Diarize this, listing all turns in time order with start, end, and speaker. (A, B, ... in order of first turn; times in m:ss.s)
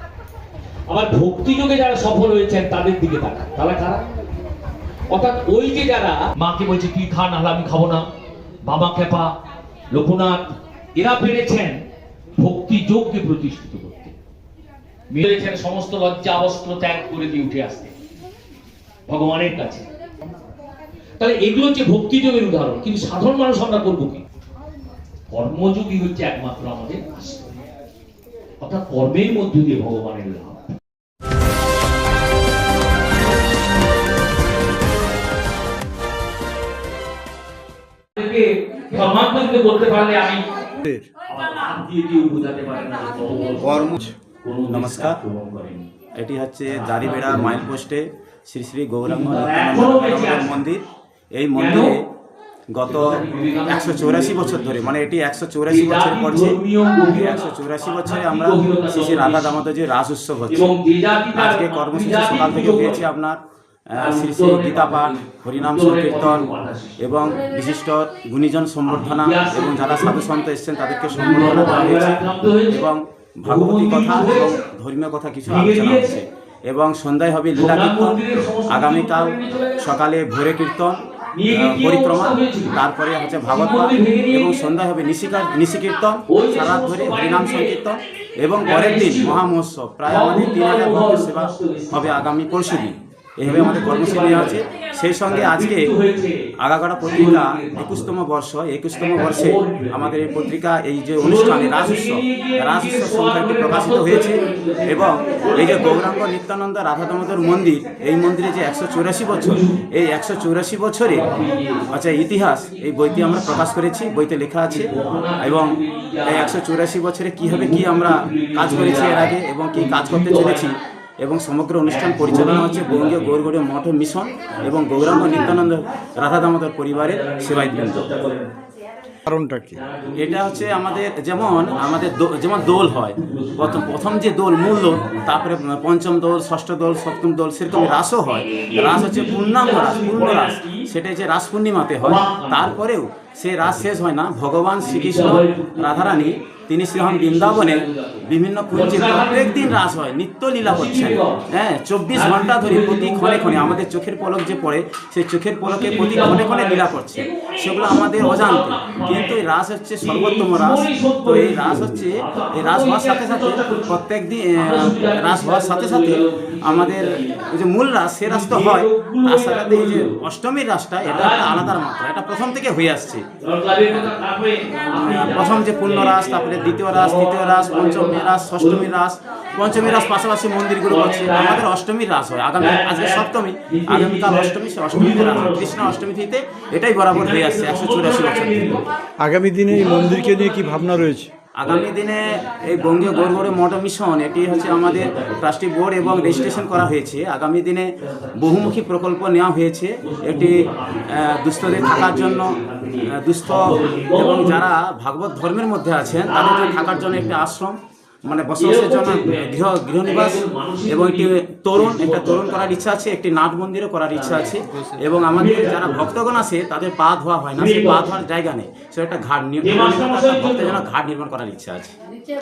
0:00.9-0:04.0 A
0:05.1-0:08.1 A
0:08.6-0:09.4 A
0:09.9-0:11.8 A
0:12.4-0:14.2 A
0:15.1-0:17.9 A
0:19.1-0:19.9 A
0:21.2-0:24.2 A
0:25.3-0:27.6 A
0:28.6-0:30.8 A
0:38.2-0:40.4 A
0:41.2-0:45.9 A
0:44.7-0:45.2 B
0:46.2-0:52.0 B
0:46.7-0:47.7 A
0:49.0-0:50.7 A
0:51.5-0:52.0 A
0:52.7-1:00.7 B
0:52.8-0:55.0 A
0:55.7-0:59.7 A
1:00.5-1:03.0 A
1:01.4-1:03.4 B
1:03.9-1:06.5 B
1:03.9-1:07.3 A
1:07.0-1:35.9 B
1:08.9-1:10.3 A
1:11.1-1:12.9 A
1:13.4-1:14.6 A
1:15.5-1:16.2 A
1:17.5-1:20.0 A
1:21.3-1:22.8 A
1:23.5-1:24.7 A
1:26.3-1:27.8 A
1:28.6-1:29.4 A
1:30.0-1:32.3 A
1:33.4-1:34.6 A
1:35.2-1:36.5 A
1:36.6-1:51.4 B
1:37.1-1:38.1 A
1:38.9-1:40.5 A
1:41.2-1:46.2 A
1:49.3-1:49.8 A
1:51.1-1:51.9 A
1:51.9-2:08.2 B
1:54.7-1:56.6 A
1:57.4-2:00.7 A
2:01.9-2:03.5 A
2:04.5-2:05.9 A
2:06.9-2:08.5 A
2:09.3-2:09.8 C
2:09.7-2:15.5 A
2:10.2-2:53.3 B
2:17.7-2:20.9 A
2:22.0-2:22.8 A
2:24.8-2:29.8 A
2:30.6-2:31.5 A
2:32.1-2:33.8 A
2:35.6-2:39.5 A
2:40.0-2:44.0 A
2:44.6-2:47.6 A
2:48.2-2:50.2 A
2:51.0-2:51.8 A
2:53.4-2:58.9 A
2:54.8-3:08.9 B
2:59.6-3:00.2 A
3:00.8-3:01.7 A
3:02.6-3:06.0 A
3:07.1-3:08.9 A
3:09.2-3:11.3 C
3:09.5-3:13.7 A
3:11.6-3:41.9 B
3:14.3-3:16.9 A
3:18.0-3:18.8 A
3:20.0-3:24.7 A
3:26.2-3:27.5 A
3:28.6-3:32.9 A
3:34.1-3:36.4 A
3:37.6-3:38.2 A
3:39.6-3:40.9 A